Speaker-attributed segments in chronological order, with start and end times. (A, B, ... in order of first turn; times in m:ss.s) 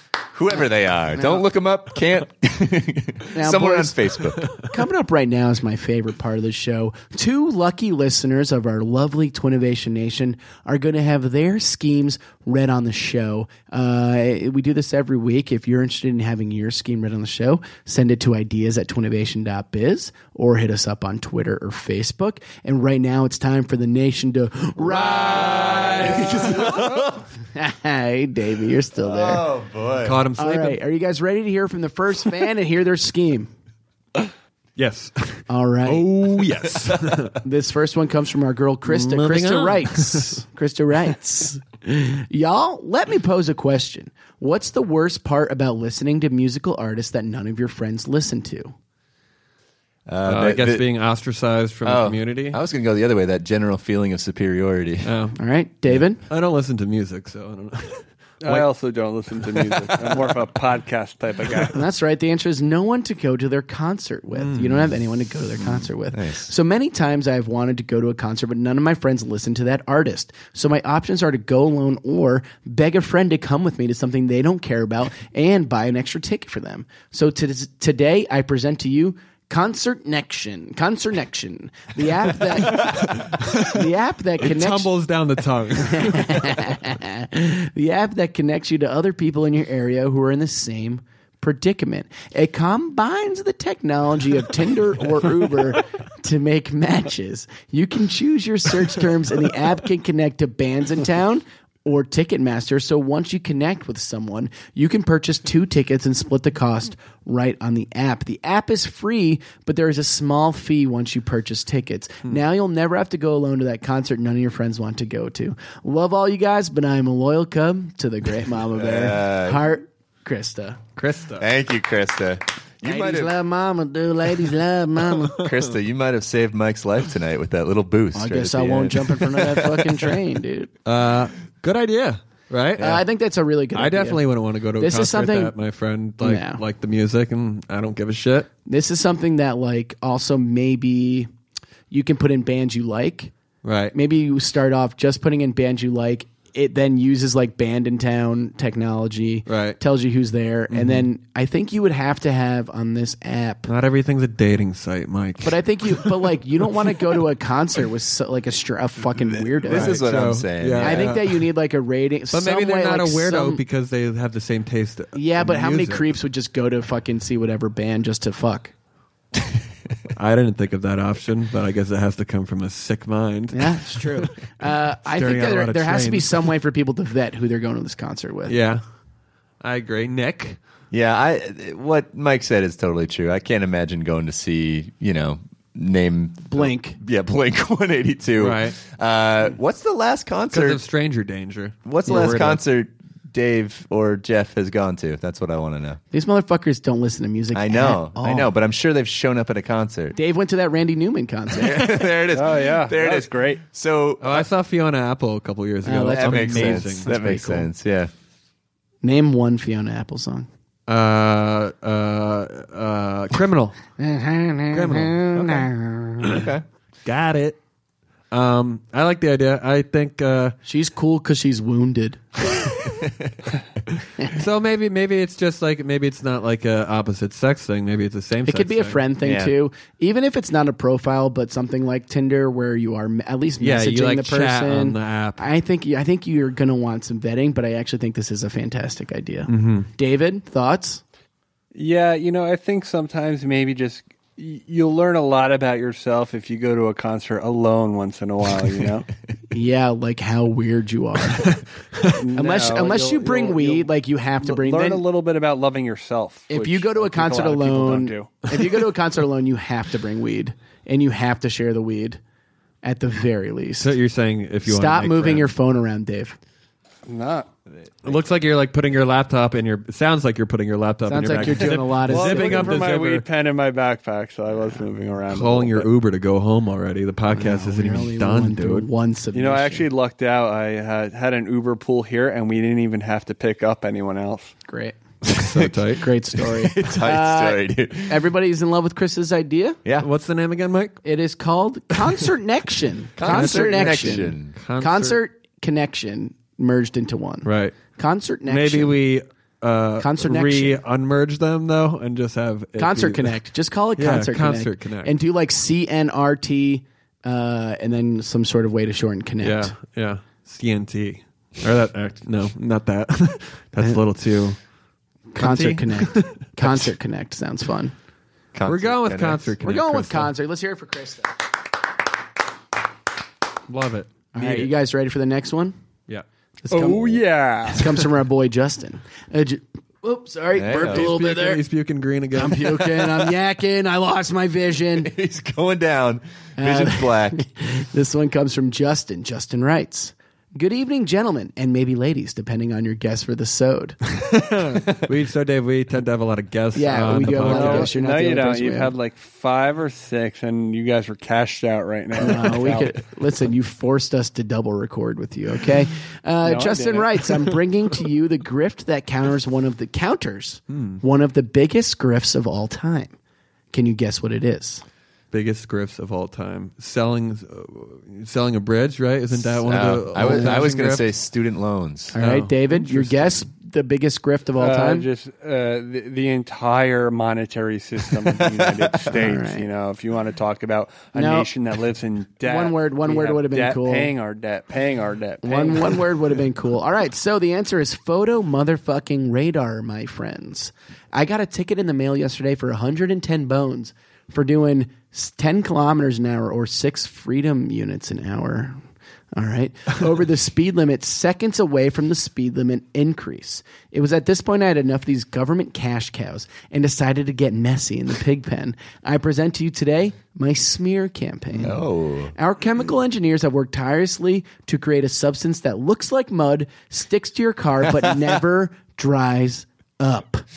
0:00.3-0:04.5 A
0:01.1-0:01.4 B
0:03.3-0:04.0 B
0:04.6-0:29.5 B
0:24.8-0:26.8 C
0:25.0-0:27.3 A
0:29.0-0:30.2 A
0:30.0-0:30.8 C
0:30.4-0:33.5 B
0:34.8-0:37.4 C
0:35.5-0:36.1 B
0:36.7-0:37.2 A
0:37.4-0:48.7 B
0:38.9-0:40.3 C
0:50.1-0:50.9 A
0:50.3-0:52.6 C
0:51.8-0:55.1 A
0:55.0-0:55.4 C
0:55.4-0:56.2 B
0:56.2-0:58.7 C
0:58.4-1:01.8 D
0:59.4-1:00.4 C
1:01.7-1:24.9 B
1:04.4-1:04.9 C
1:05.6-1:06.5 A
1:22.7-1:23.8 C
1:24.4-1:26.8 C
1:25.8-2:00.8 B
1:58.8-1:59.7 A
2:01.0-2:01.5 C
2:01.4-2:03.4 A
2:02.8-2:05.5 B
2:05.4-2:10.0 A
2:08.1-2:10.7 B
2:10.8-2:13.0 C
2:12.8-2:14.2 B
2:13.7-2:18.5 C
2:14.8-2:15.6 B
2:16.2-2:16.6 B
2:18.7-2:21.3 B
2:21.9-2:23.3 B
2:23.6-2:24.0 C
2:23.9-2:33.7 B
2:29.5-2:29.8 C
2:30.7-2:31.1 C
2:33.7-2:36.1 C
2:35.4-2:40.0 B
2:39.4-2:41.2 A
2:39.7-2:41.4 C
2:40.8-2:43.6 B
2:42.3-2:46.1 C
2:45.1-2:48.7 B
2:50.1-2:54.3 C
2:53.5-2:58.6 B
2:55.1-2:56.5 C
2:58.5-2:58.8 C
2:59.6-3:00.6 C
3:00.9-3:10.8 A
3:06.5-3:07.0 B
3:08.4-3:08.8 C
3:10.5-3:12.6 C
3:11.8-3:16.0 A
3:12.1-3:12.4 B
3:16.1-3:18.5 B
3:17.5-3:20.2 A
3:20.1-3:22.0 B
3:21.5-3:24.5 A
3:22.3-3:23.6 D
3:24.2-3:27.1 C
3:25.8-3:27.7 B
3:26.0-3:28.1 A
3:29.0-3:30.5 B
3:30.9-3:33.8 C
3:34.0-3:36.4 B
3:34.7-3:35.6 C
3:36.2-3:36.6 A
3:37.0-3:37.6 C
3:38.3-3:40.6 C
3:40.7-3:42.7 B
3:42.9-3:43.4 A
3:44.3-3:49.0 C
3:48.4-4:01.0 B
3:49.2-3:49.6 A
3:53.6-3:55.4 C
3:59.5-3:59.9 C
4:01.7-4:09.1 D
4:09.5-4:11.6 B
4:12.1-4:13.9 D
4:12.3-4:15.0 B
4:14.4-4:18.4 D
4:16.5-4:22.2 B
4:22.8-4:23.9 B
4:23.8-4:25.5 C
4:24.6-4:26.4 B
4:27.1-4:27.5 D
4:28.0-4:33.2 C
4:31.1-4:32.9 B
4:32.0-4:35.9 D
4:35.3-4:38.9 C
4:37.3-4:39.9 B
4:39.3-4:44.5 D
4:44.7-4:45.0 B
4:45.3-4:46.1 C
4:45.3-4:45.8 A
4:45.9-4:49.8 B
4:46.3-4:48.3 A
4:50.0-4:51.0 C
4:51.0-4:59.0 B
4:53.2-4:54.6 A
4:53.2-4:55.2 C
4:57.4-4:57.8 C
4:58.5-5:03.4 C
5:00.0-5:00.8 B
5:02.8-5:09.7 B
5:04.0-5:05.1 C
5:09.4-5:14.6 C
5:15.3-5:17.9 B
5:15.4-5:16.9 C
5:18.5-5:19.5 A
5:18.6-5:20.3 C
5:19.6-5:21.4 B
5:23.7-5:24.7 C
5:24.3-5:25.8 B
5:26.6-5:31.6 B
5:26.7-5:28.1 D
5:30.5-5:31.1 A
5:30.8-5:33.1 C
5:32.3-5:35.1 B
5:34.9-5:37.4 A
5:36.6-5:44.0 B
5:44.2-5:47.9 C
5:46.8-5:48.9 B
5:47.3-5:52.9 D
5:52.2-6:03.1 B
5:56.4-5:57.6 D
6:00.7-6:01.0 C
6:03.7-6:04.8 B
6:05.3-6:11.1 C
6:09.6-6:12.1 A
6:10.2-6:10.5 B
6:12.1-6:15.1 B
6:12.2-6:13.4 C
6:14.6-6:26.4 D
6:19.1-6:19.6 B
6:21.1-6:21.5 B
6:22.4-6:24.1 B
6:25.4-6:38.8 B
6:39.3-6:51.8 B
6:51.6-6:52.4 A
6:52.4-7:00.4 B
6:57.8-6:58.3 A